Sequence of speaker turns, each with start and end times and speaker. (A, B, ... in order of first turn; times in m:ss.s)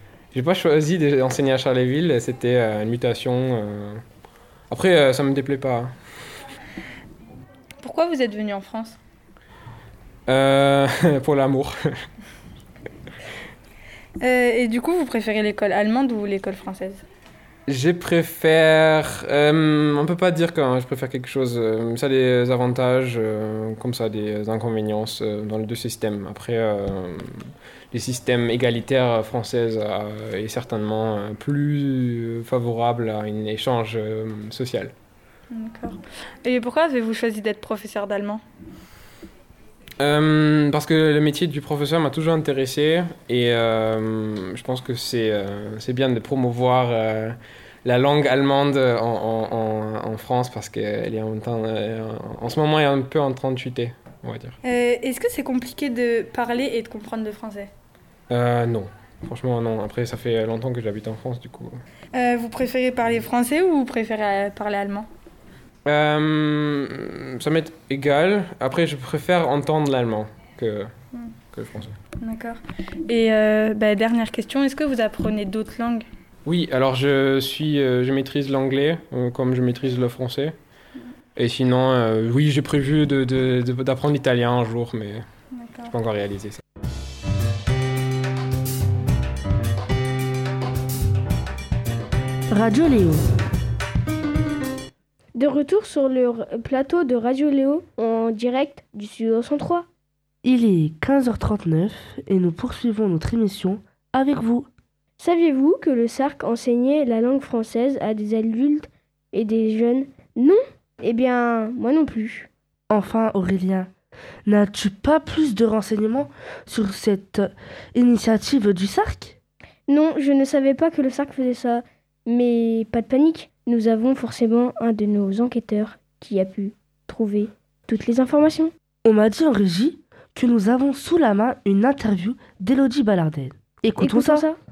0:00.3-0:04.0 A
0:04.7-0:06.0 A
0:07.8-0:09.0 B
0:10.3-0:12.0 A
0:14.2-0:17.0 B
0:17.7-0:34.9 A
0:35.5-0:38.4 B
0:40.0-0:54.6 A
0:54.6-0:57.7 B
0:58.3-1:01.8 A
1:02.1-1:05.1 B
1:05.8-1:10.9 A
1:11.5-1:12.0 A
1:12.2-1:16.1 B
1:16.4-1:20.5 A
1:21.4-1:25.2 A
1:25.5-1:25.9 B
1:25.9-1:26.6 A
1:32.5-1:33.2 C
1:35.3-1:39.8 D
1:40.4-1:44.7 C
1:45.2-1:52.5 D
1:52.9-1:53.9 C
1:54.4-1:59.4 C
1:59.9-2:08.7 D
2:09.0-2:14.4 C
2:14.0-2:14.6 D